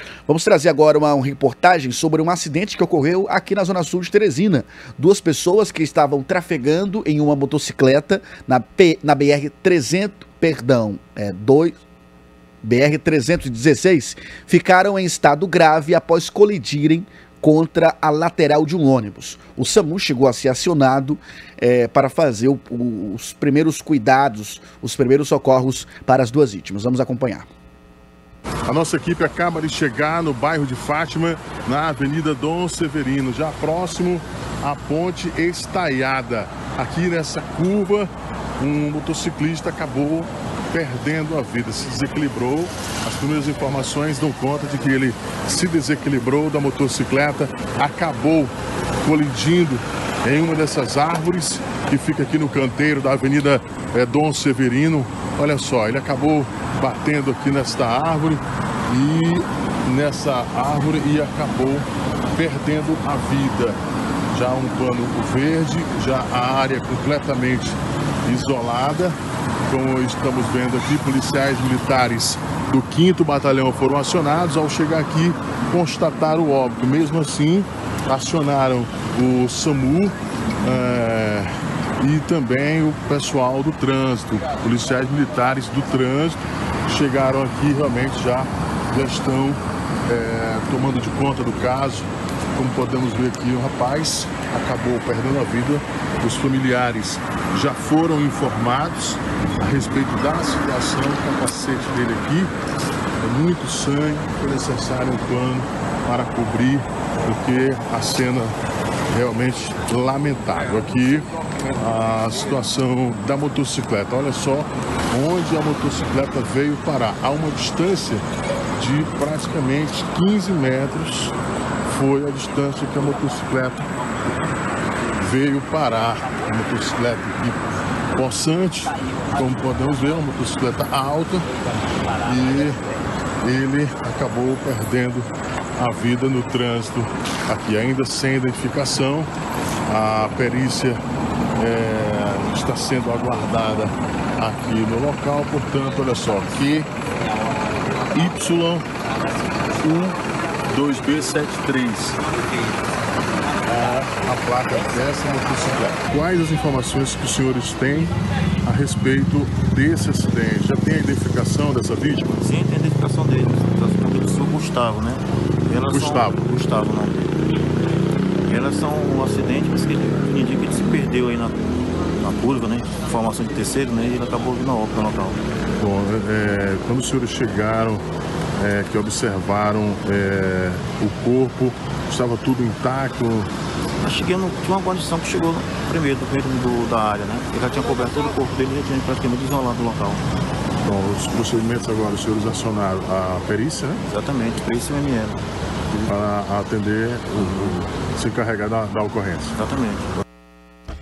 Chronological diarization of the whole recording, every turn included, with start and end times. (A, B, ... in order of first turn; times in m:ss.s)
0:00.3-0:11.8 A
0:12.6-0:27.5 A
0:28.6-1:03.8 B
1:04.3-1:09.2 B
1:09.7-1:42.5 B
1:43.2-1:48.6 B
1:49.1-1:58.2 B
1:58.7-2:03.9 B
2:05.2-2:11.5 B
2:12.2-2:12.8 B
2:13.4-2:19.3 B
2:19.9-2:21.0 B
2:21.6-2:26.9 B
2:28.1-2:28.8 B
2:29.7-2:30.2 B
2:30.7-2:32.2 B
2:33.6-2:42.4 B
2:42.4-2:47.4 C
2:45.9-2:46.4 B
2:48.5-2:55.4 C
2:55.8-2:58.0 B
2:58.6-3:03.5 B
3:04.0-3:10.2 C
3:10.8-3:14.0 B
3:14.1-3:16.0 C
3:16.1-3:19.5 B
3:19.5-3:20.1 C